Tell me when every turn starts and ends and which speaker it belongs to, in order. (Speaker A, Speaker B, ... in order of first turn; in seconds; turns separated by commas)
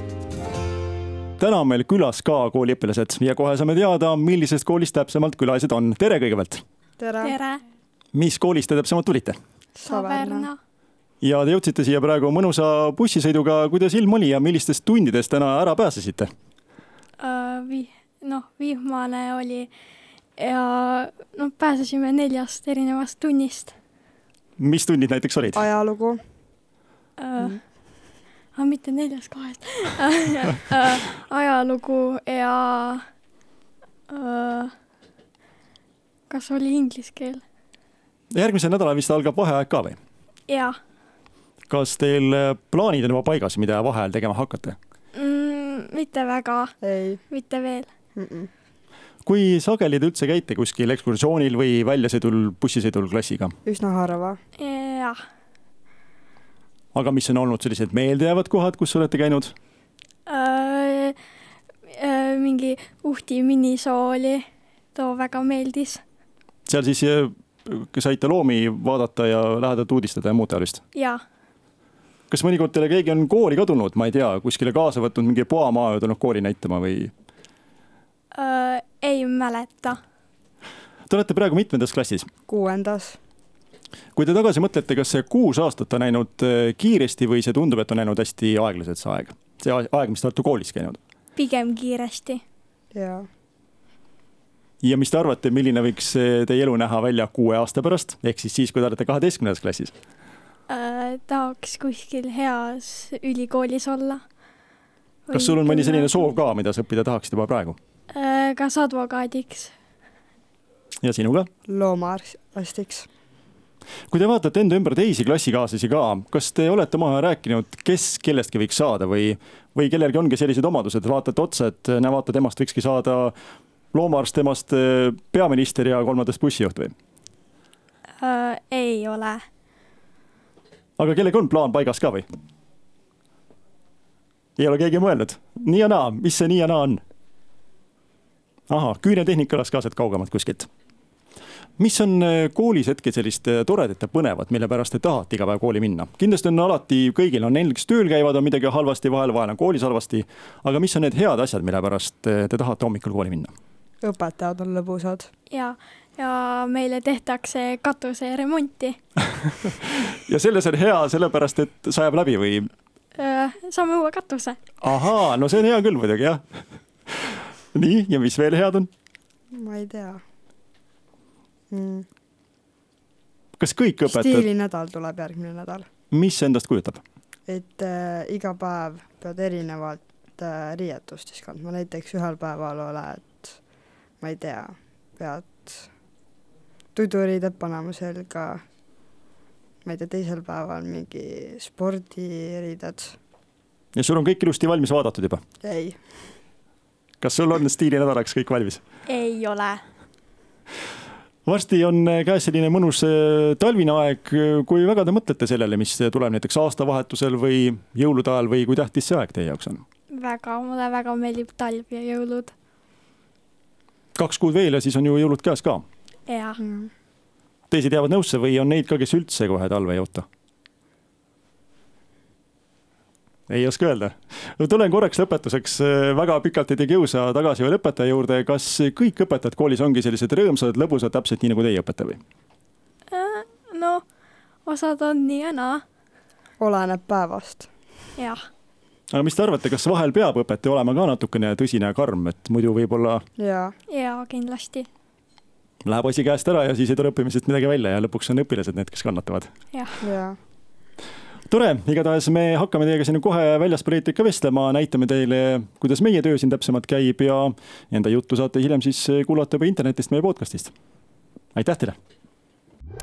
Speaker A: 1.4-6.6, Speaker B: 7.0-7.4, Speaker C: 7.2-7.6, Speaker A: 8.1-9.4, Speaker B: 9.8-10.5, Speaker C: 9.8-10.6, Speaker A: 11.2-16.3, Speaker C: 17.2-19.7, Speaker C: 20.4-23.7, Speaker A: 24.6-25.7, Speaker B: 25.6-26.2, Speaker C: 27.2-27.6, Speaker C: 28.6-33.0, Speaker C: 34.1-34.7, Speaker C: 36.3-37.4, Speaker A: 38.3-40.0, Speaker C: 40.5-40.8, Speaker A: 41.7-44.8, Speaker C: 45.1-46.8, Speaker B: 46.8-47.2, Speaker C: 47.3-47.9, Speaker B: 48.2-48.5, Speaker A: 49.2-53.5, Speaker B: 53.7-54.4, Speaker C: 54.6-55.2, Speaker A: 56.9-59.5, Speaker C: 60.3-61.2, Speaker C: 61.9-66.0, Speaker A: 66.7-70.8, Speaker C: 71.0-71.2, Speaker A: 72.3-77.1, Speaker C: 78.3-80.0, Speaker A: 81.1-82.3, Speaker B: 82.5-83.2, Speaker A: 84.2-91.0, Speaker C: 91.4-92.4, Speaker B: 92.9-93.3, Speaker A: 94.8-99.9, Speaker C: 100.7-104.2, Speaker C: 105.3-106.3, Speaker A: 105.3-107.8, Speaker C: 108.1-109.7, Speaker A: 111.0-111.5, Speaker B: 111.7-113.1, Speaker A: 114.1-123.3, Speaker A: 123.9-126.9, Speaker C: 128.2-129.4, Speaker A: 131.0-132.3, Speaker A: 134.6-137.0, Speaker A: 138.7-140.7, Speaker A: 141.8-153.5, Speaker B: 154.0-155.3, Speaker C: 155.5-159.0, Speaker A: 159.6-162.7, Speaker C: 163.2-164.6, Speaker A: 164.8-166.4, Speaker A: 167.1-168.9, Speaker B: 169.5-170.2, Speaker B: 171.7-172.1, Speaker A: 173.6-174.5, Speaker B: 174.1-175.9, Speaker A: 176.1-177.0, Speaker B: 177.5-183.6, Speaker B: 184.2-185.9, Speaker B: 186.9-188.6, Speaker B: 189.8-193.2, Speaker A: 193.9-195.4, Speaker B: 195.6-196.0, Speaker A: 197.2-198.8, Speaker C: 199.1-199.8, Speaker A: 201.5-209.8, Speaker C: 210.1-212.5, Speaker A: 214.2-215.8, Speaker C: 216.3-216.6, Speaker B: 216.6-216.9, Speaker A: 217.7-220.3, Speaker A: 223.5-232.2, Speaker C: 233.1-234.0, Speaker C: 234.7-235.8, Speaker B: 236.6-237.7, Speaker C: 238.2-238.4, Speaker A: 239.1-243.2, Speaker B: 243.4-243.7, Speaker C: 243.9-244.9, Speaker A: 245.8-249.5, Speaker B: 250.0-250.4, Speaker A: 251.5-260.7, Speaker A: 261.6-262.0